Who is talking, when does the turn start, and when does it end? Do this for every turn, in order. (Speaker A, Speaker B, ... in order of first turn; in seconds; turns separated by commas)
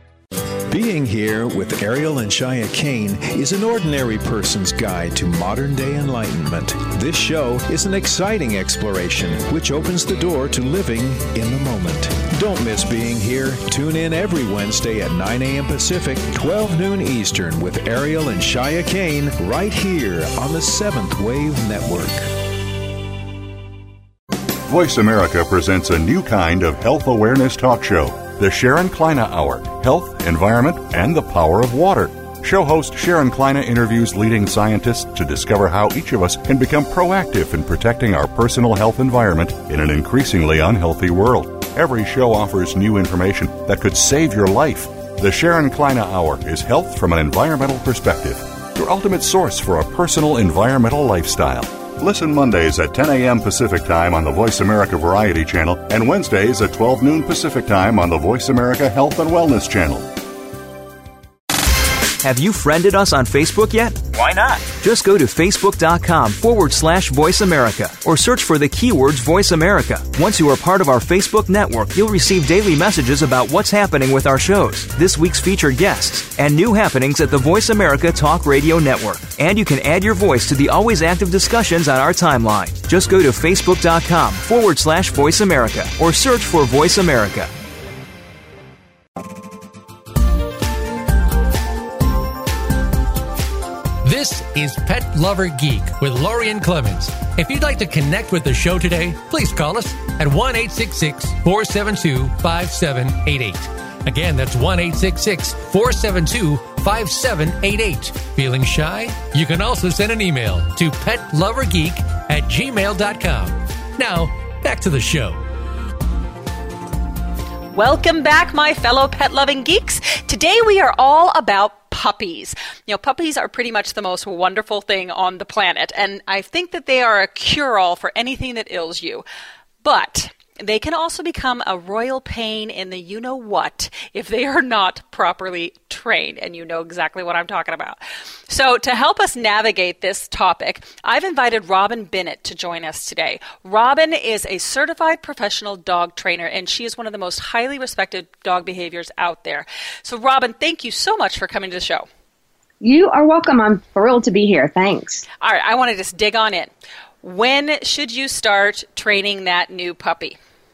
Speaker A: 0.7-22.3, Speaker B: 24.6-60.1, Speaker C: 62.2-87.5, Speaker D: 94.0-115.4, Speaker E: 117.7-129.2, Speaker E: 129.8-152.1, Speaker F: 152.8-155.3, Speaker E: 155.4-160.4